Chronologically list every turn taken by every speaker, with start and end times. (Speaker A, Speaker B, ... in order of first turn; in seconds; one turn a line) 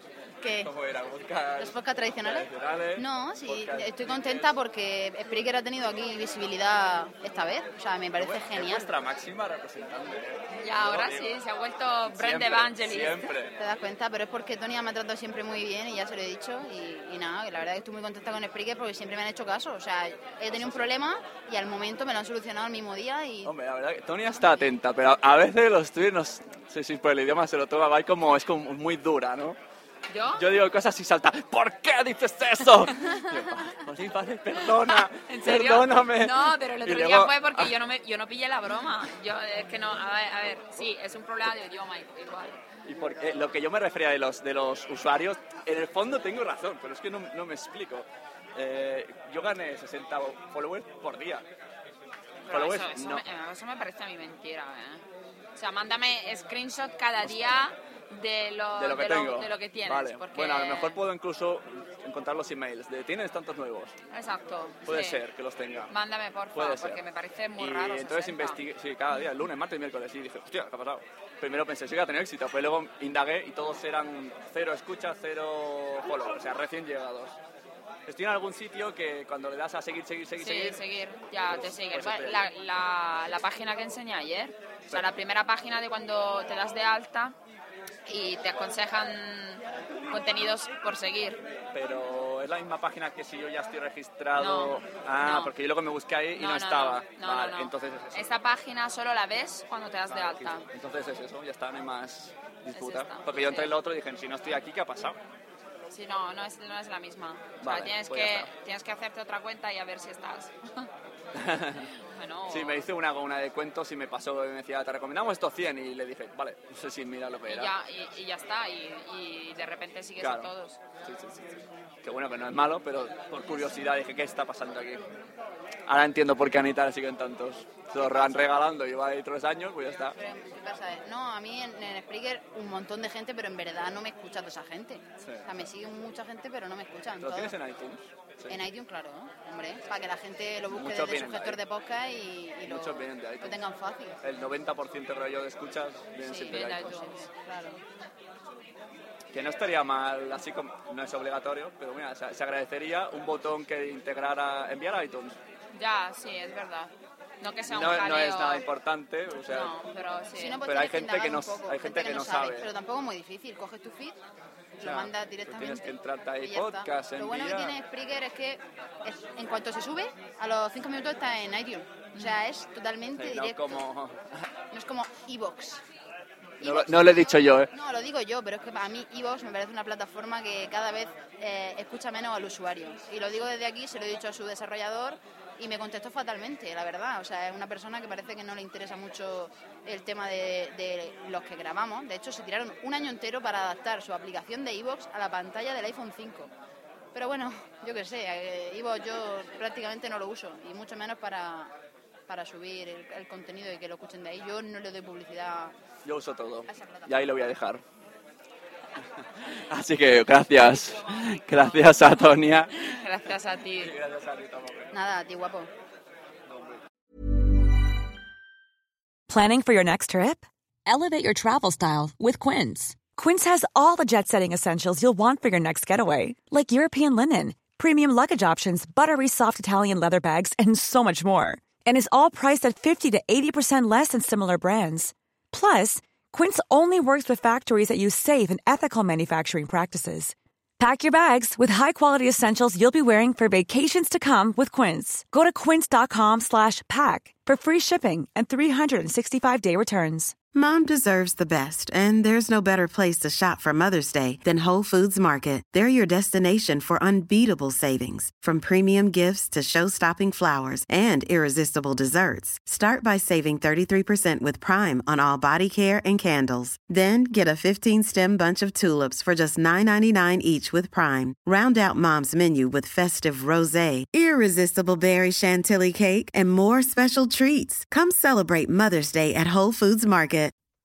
Speaker A: 0.4-0.7
Speaker B: 0.6-4.5
Speaker A: 1.6-8.9
Speaker B: 8.2-11.4
Speaker C: 10.6-13.2
Speaker B: 12.1-13.6
Speaker A: 13.6-23.5
Speaker B: 20.5-20.9
Speaker B: 23.4-29.6
Speaker C: 30.1-30.4
Speaker B: 30.4-37.7
Speaker C: 34.8-42.6
Speaker B: 42.9-51.5
Speaker C: 52.5-55.0
Speaker B: 52.5-53.2
Speaker C: 55.5-61.0
Speaker B: 57.2-57.6
Speaker B: 58.8-63.9
Speaker C: 64.1-65.2
Speaker B: 64.8-65.9
Speaker C: 65.9-68.6
Speaker B: 66.5-67.0
Speaker B: 67.6-77.4
Speaker B: 78.1-80.8
Speaker C: 80.4-87.4
Speaker B: 81.4-82.5
Speaker C: 88.1-91.4
Speaker B: 91.7-98.3
Speaker C: 94.4-95.5
Speaker C: 96.3-100.7
Speaker B: 100.1-105.2
Speaker C: 102.7-103.7
Speaker C: 105.9-110.9
Speaker B: 107.6-108.5
Speaker B: 111.4-111.8
Speaker C: 111.9-112.9
Speaker B: 112.5-117.7
Speaker C: 117.5-120.8
Speaker B: 120.2-120.5
Speaker B: 121.0-125.0
Speaker B: 125.9-130.2
Speaker A: 130.1-137.6
Speaker B: 135.2-135.5
Speaker B: 137.2-138.6
Speaker A: 138.5-144.2
Speaker B: 140.7-141.6
Speaker B: 142.6-143.6
Speaker B: 144.2-146.9
Speaker A: 146.2-147.8
Speaker C: 146.2-147.3
Speaker B: 149.3-155.4
Speaker C: 155.7-158.7
Speaker B: 157.7-159.7
Speaker C: 159.5-160.6
Speaker A: 160.3-164.2
Speaker B: 160.6-162.7
Speaker A: 164.8-173.9
Speaker B: 164.8-167.8
Speaker B: 173.1-174.2
Speaker A: 174.7-175.8
Speaker A: 176.6-196.5
Speaker B: 176.6-177.7
Speaker A: 197.1-201.7
Speaker A: 202.3-205.7
Speaker B: 206.0-207.8
Speaker A: 206.7-207.3
Speaker B: 209.7-212.9
Speaker C: 212.9-213.9
Speaker B: 213.8-214.9
Speaker A: 214.9-215.7
Speaker B: 216.5-216.8
Speaker D: 219.3-250.3
Speaker E: 250.5-280.5